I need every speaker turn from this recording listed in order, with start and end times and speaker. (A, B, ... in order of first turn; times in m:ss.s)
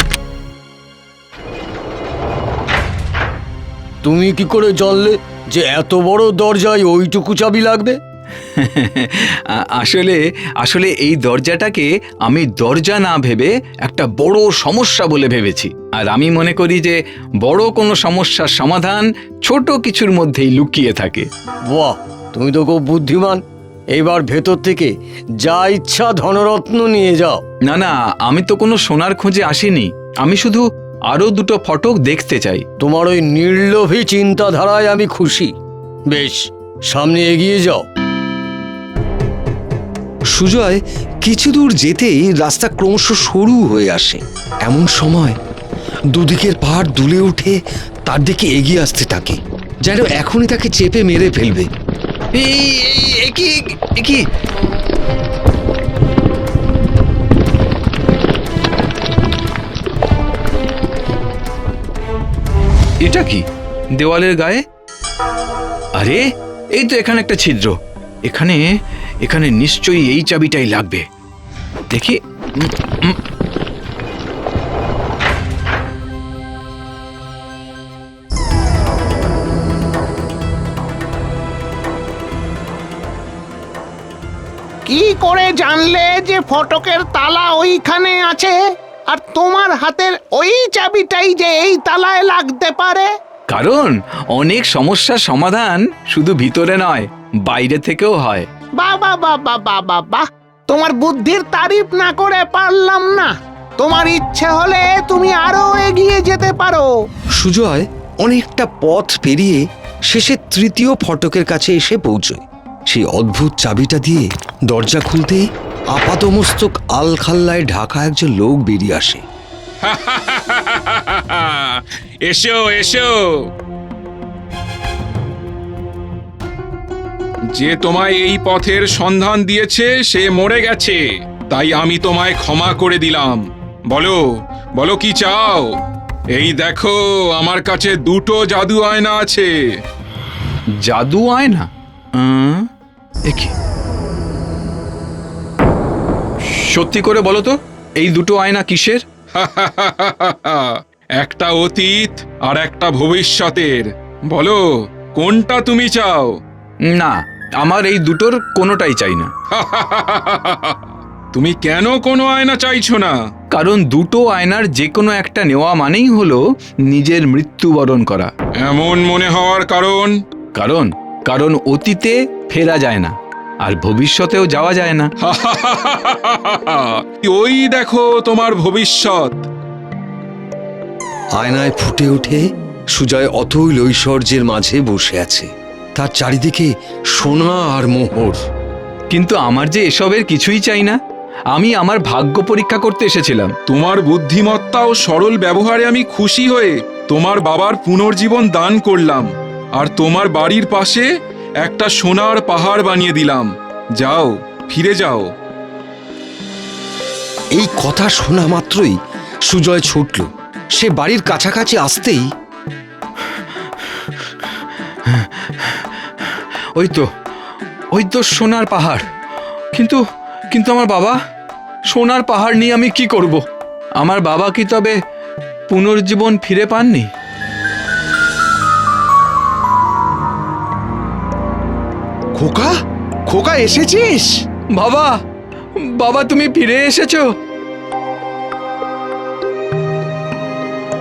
0:04.0-0:08.0 A
0:08.4-0:21.3 B
0:21.7-0:23.4 A
0:23.9-0:27.4 A
0:27.7-0:32.6 B
0:32.8-0:35.5 A
0:36.1-0:37.8 A
0:40.3-0:45.4 C
0:46.1-0:51.7 C
0:52.3-0:54.2 B
1:03.0-1:03.4 B
1:04.0-1:04.6 B
1:06.0-1:06.2 B
1:06.8-1:08.7 B
1:09.2-1:11.0 B
1:11.9-1:13.2 B
1:24.9-1:28.6 D
1:29.1-1:33.1 D
1:33.5-1:38.5 B
1:38.8-1:46.9 D
1:47.4-1:59.2 C
1:59.8-2:03.5 E
2:07.5-2:14.2 E
2:14.8-2:15.8 E
2:16.3-2:19.5 E
2:20.8-2:22.7 B
2:26.4-2:29.0 B
2:29.4-2:36.4 E
2:36.9-2:39.3 B
2:39.5-2:43.2 E
2:43.5-2:48.3 B
2:48.6-2:50.2 E
2:50.6-2:55.1 B
2:55.2-2:59.4 E
3:01.4-3:08.4 C
3:09.1-3:11.0 B
3:11.5-3:13.5 B
3:13.7-3:21.1 E
3:21.6-3:25.3 E
3:27.5-3:32.3 C
3:35.1-3:37.1 B
3:37.9-3:39.0 B
3:39.7-3:41.2 B
3:41.9-3:43.4 B
3:44.0-3:45.0 B
3:45.7-3:47.1 B
3:52.4-3:52.7 D
3:53.3-3:54.3 D
3:54.8-3:55.2 B
3:55.8-3:57.3 B